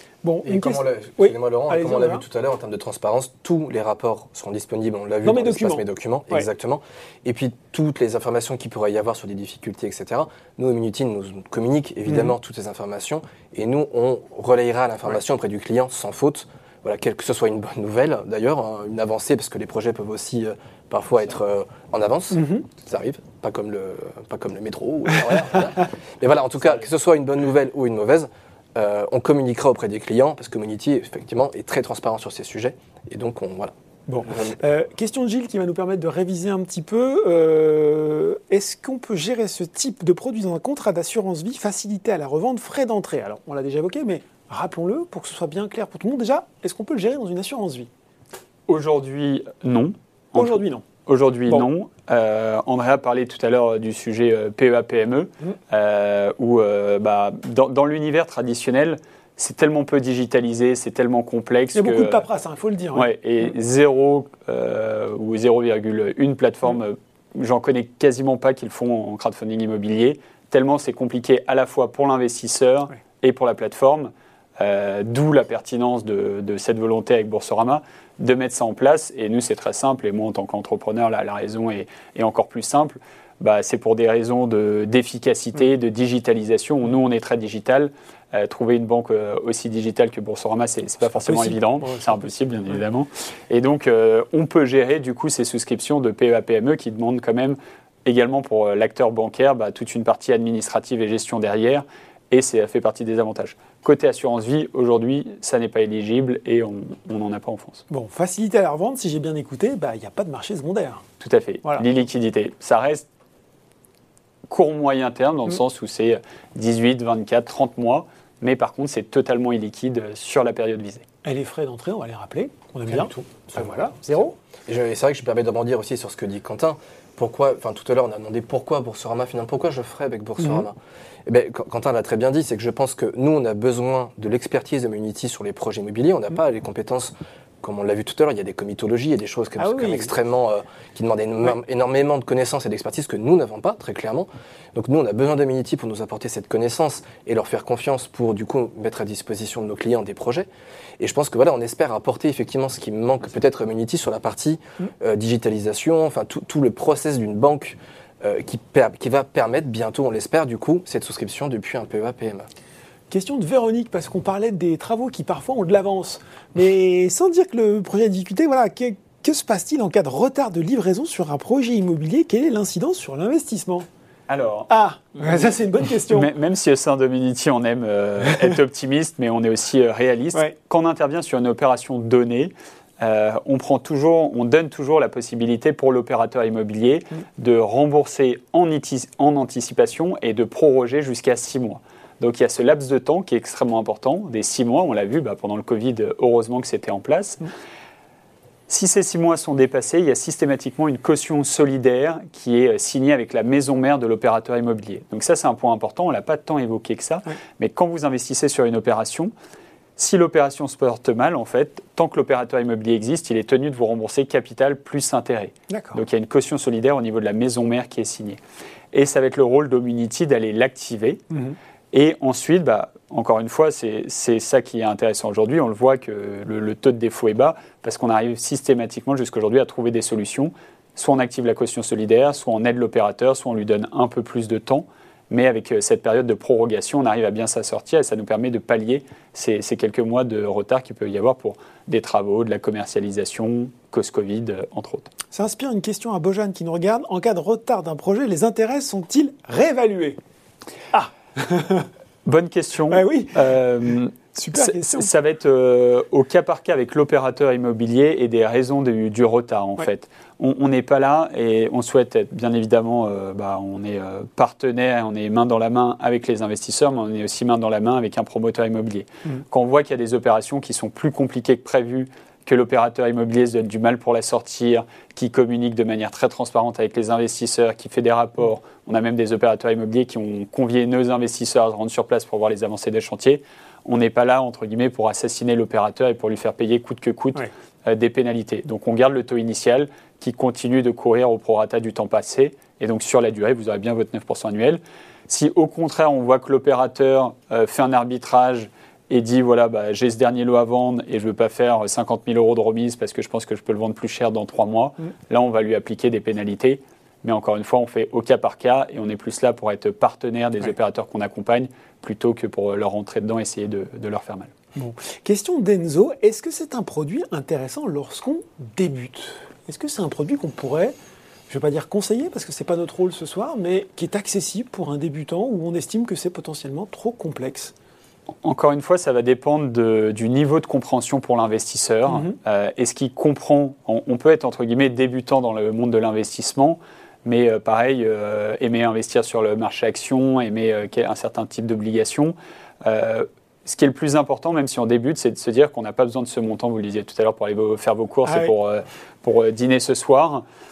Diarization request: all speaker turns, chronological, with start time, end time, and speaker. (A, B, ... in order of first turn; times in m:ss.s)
0:00.2-0:02.2 A
0:00.4-0:33.7 B
0:05.2-0:06.5 A
0:12.1-0:12.3 A
0:22.3-0:22.6 A
0:34.1-0:47.9 A
0:34.2-0:34.6 B
0:48.7-1:02.2 C
0:50.3-0:50.8 A
1:01.7-1:03.1 A
1:02.9-1:47.8 C
1:31.1-1:32.3 A
1:47.9-1:51.0 A
1:51.2-1:53.1 C
1:54.5-2:01.0 C
2:01.2-2:04.3 A
2:02.9-2:10.7 B
2:11.2-2:30.5 B
2:19.6-2:20.1 A
2:31.0-2:42.5 B
2:43.1-2:53.9 A
2:54.3-2:55.5 C
2:54.7-2:56.3 A
2:56.1-3:17.5 C
3:18.7-3:29.3 C
3:30.0-3:38.4 C
3:35.7-3:36.0 A
3:38.9-3:41.2 C
3:41.3-3:41.6 A
3:41.9-4:05.1 C
4:05.3-4:10.2 A
4:10.9-4:11.9 A
4:12.2-5:14.5 C
4:12.9-4:13.5 A
4:14.3-4:15.1 A
5:14.7-5:20.9 A
5:21.5-5:27.7 A
5:28.4-5:50.4 C
5:32.1-5:32.4 A
5:48.2-5:48.5 A